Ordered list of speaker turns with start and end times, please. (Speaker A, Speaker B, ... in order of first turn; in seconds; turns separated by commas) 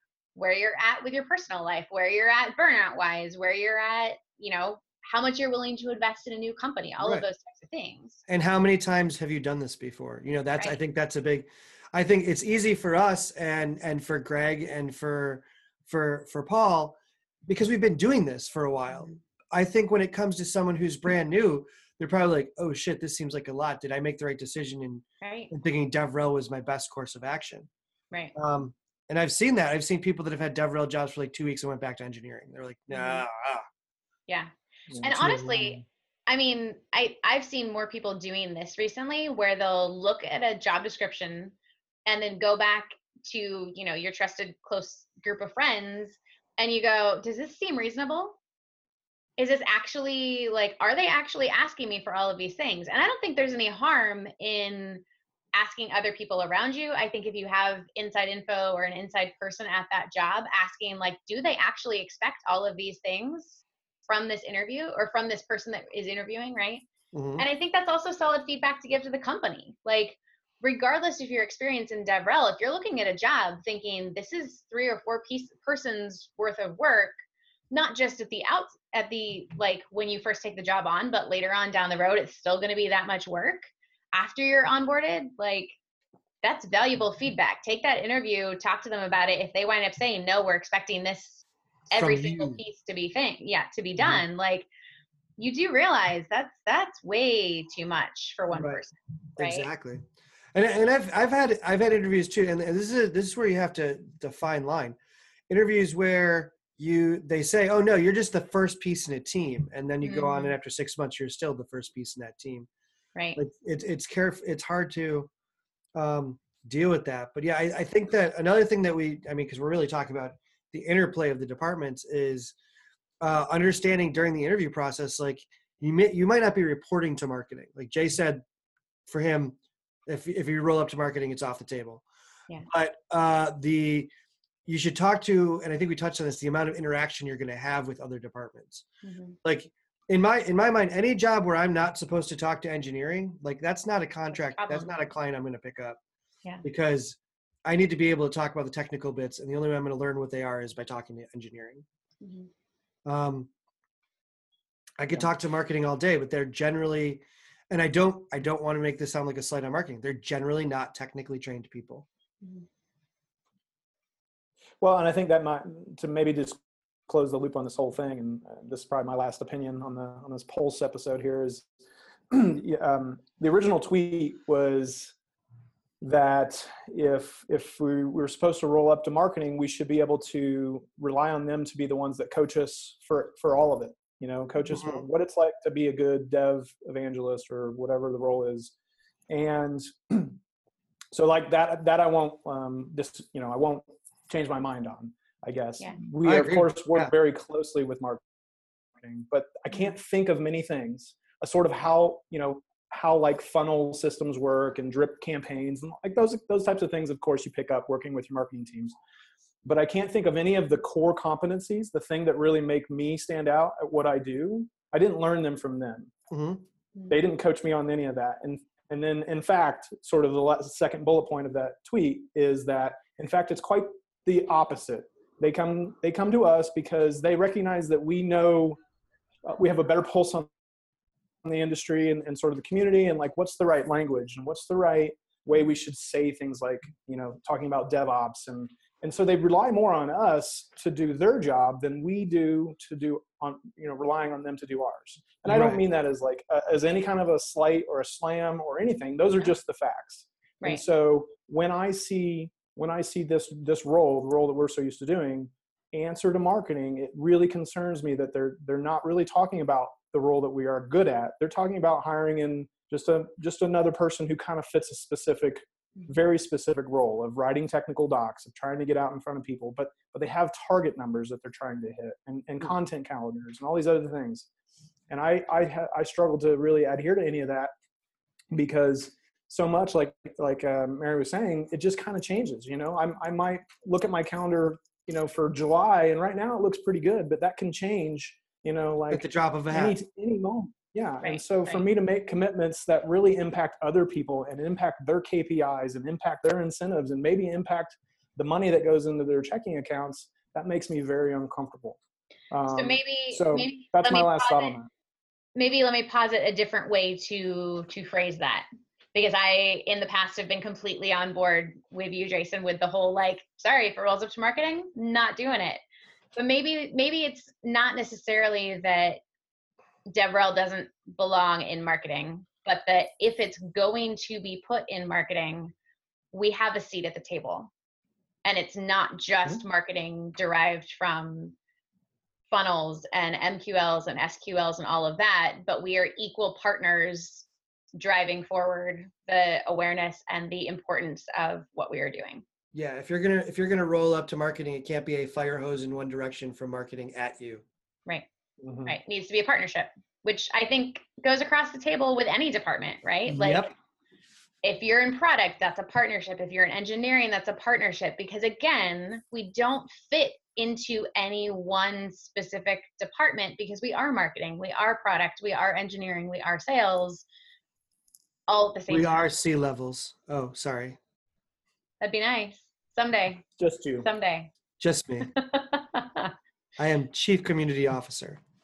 Speaker A: 0.3-8.2, Speaker B: 7.0-7.3, Speaker B: 8.3-27.7, Speaker A: 18.9-19.2, Speaker A: 25.2-25.5, Speaker B: 28.4-33.6, Speaker A: 32.9-33.2, Speaker A: 35.0-41.5, Speaker B: 35.0-35.7, Speaker A: 42.0-48.4, Speaker A: 49.4-55.0, Speaker A: 55.5-66.8, Speaker B: 67.1-67.5, Speaker A: 67.4-77.2, Speaker A: 77.7-85.7, Speaker A: 86.4-94.7, Speaker B: 91.9-92.6, Speaker B: 94.0-94.2, Speaker A: 95.4-99.7, Speaker B: 98.5-98.8, Speaker B: 99.4-100.0, Speaker B: 100.5-105.0, Speaker B: 105.5-112.7, Speaker A: 110.0-110.6, Speaker A: 113.1-113.4, Speaker B: 113.3-115.3, Speaker B: 116.0-122.5, Speaker B: 123.2-128.4, Speaker B: 129.1-132.0, Speaker B: 132.7-134.1, Speaker B: 134.7-138.8, Speaker A: 139.0-139.3, Speaker B: 139.4-146.0, Speaker A: 144.3-144.9, Speaker B: 146.6-151.8, Speaker A: 152.2-152.5, Speaker B: 153.1-153.5, Speaker B: 155.0-162.1, Speaker C: 164.8-171.7, Speaker C: 172.3-175.1, Speaker C: 176.0-188.7, Speaker B: 184.7-185.0, Speaker C: 189.3-190.4, Speaker C: 191.1-198.2, Speaker B: 196.2-197.1, Speaker C: 199.0-208.9, Speaker C: 209.6-216.1, Speaker B: 216.3-216.6, Speaker C: 217.1-228.8, Speaker C: 229.4-230.5, Speaker C: 231.4-274.5, Speaker B: 245.4-245.8, Speaker C: 275.1-277.7, Speaker C: 278.5-302.0, Speaker B: 289.1-290.0, Speaker A: 291.2-291.9, Speaker C: 302.5-304.9, Speaker A: 302.7-304.8, Speaker A: 305.5-315.8, Speaker A: 316.3-319.2, Speaker A: 320.1-325.7, Speaker A: 326.3-327.7, Speaker A: 328.4-331.5, Speaker A: 332.5-342.4, Speaker B: 342.7-347.6, Speaker C: 348.6-349.0, Speaker A: 348.9-353.7, Speaker B: 353.2-353.7, Speaker A: 354.6-367.2, Speaker A: 368.5-369.2, Speaker B: 368.9-371.0, Speaker A: 372.0-373.5, Speaker C: 373.6-374.1, Speaker A: 374.0-374.5, Speaker B: 374.8-375.3, Speaker A: 375.3-376.3, Speaker B: 376.8-378.4